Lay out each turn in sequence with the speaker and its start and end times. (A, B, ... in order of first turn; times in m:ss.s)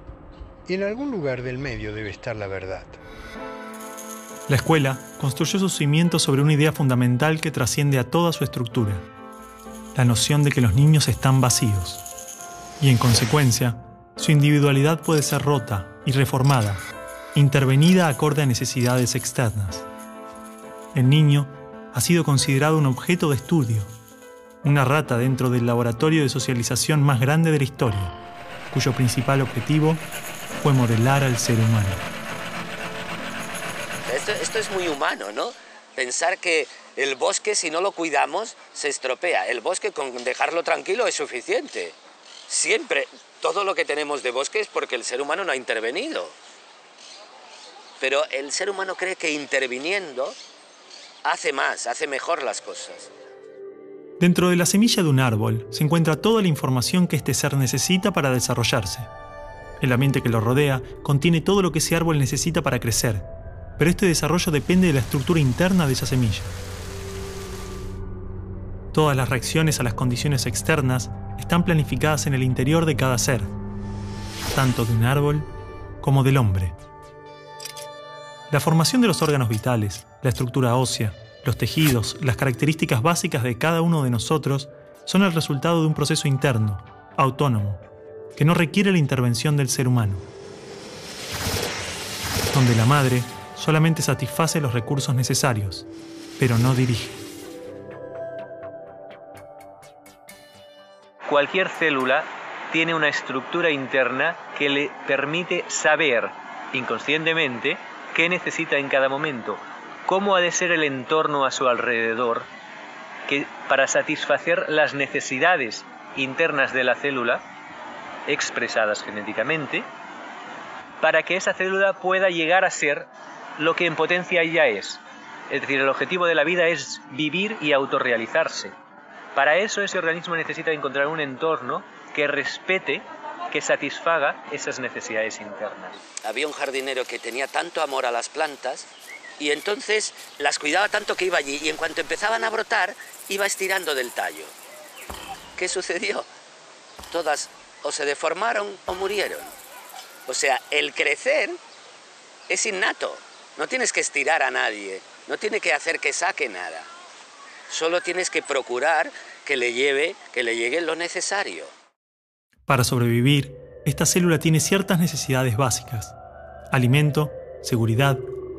0:00.6-0:03.0 A
0:04.5-0:09.0 B
0:09.9-0:12.0 B
0:12.8-0:16.8 B
0:17.3-0:19.8 B
0:20.9-0:23.9 B
0:24.6-0:28.1 B
0:28.7-0:30.0 B
0:30.6-0:32.0 B
0:34.0-0:41.9 C
0:42.5-0:46.3 C
0:48.0-0:50.4 C
0:51.2-0:53.1 C
0:54.2-0:59.1 B
0:59.8-1:03.3 B
1:03.8-1:06.5 B
1:08.9-1:13.5 B
1:14.5-1:15.5 B
1:16.0-1:16.7 B
1:18.5-1:27.8 B
1:28.4-1:30.2 B
1:32.5-1:35.9 B
1:36.4-1:37.2 B
1:41.2-1:52.5 D
1:53.3-1:57.4 D
1:58.3-1:59.9 D
2:01.0-2:08.7 D
2:09.3-2:15.9 D
2:16.2-2:18.9 C
2:19.4-2:24.5 C
2:25.6-2:26.3 C
2:27.1-2:29.5 C
2:30.3-2:31.6 C
2:32.5-2:36.9 C
2:37.7-2:41.7 C
2:42.7-2:46.1 B
2:46.7-2:48.2 B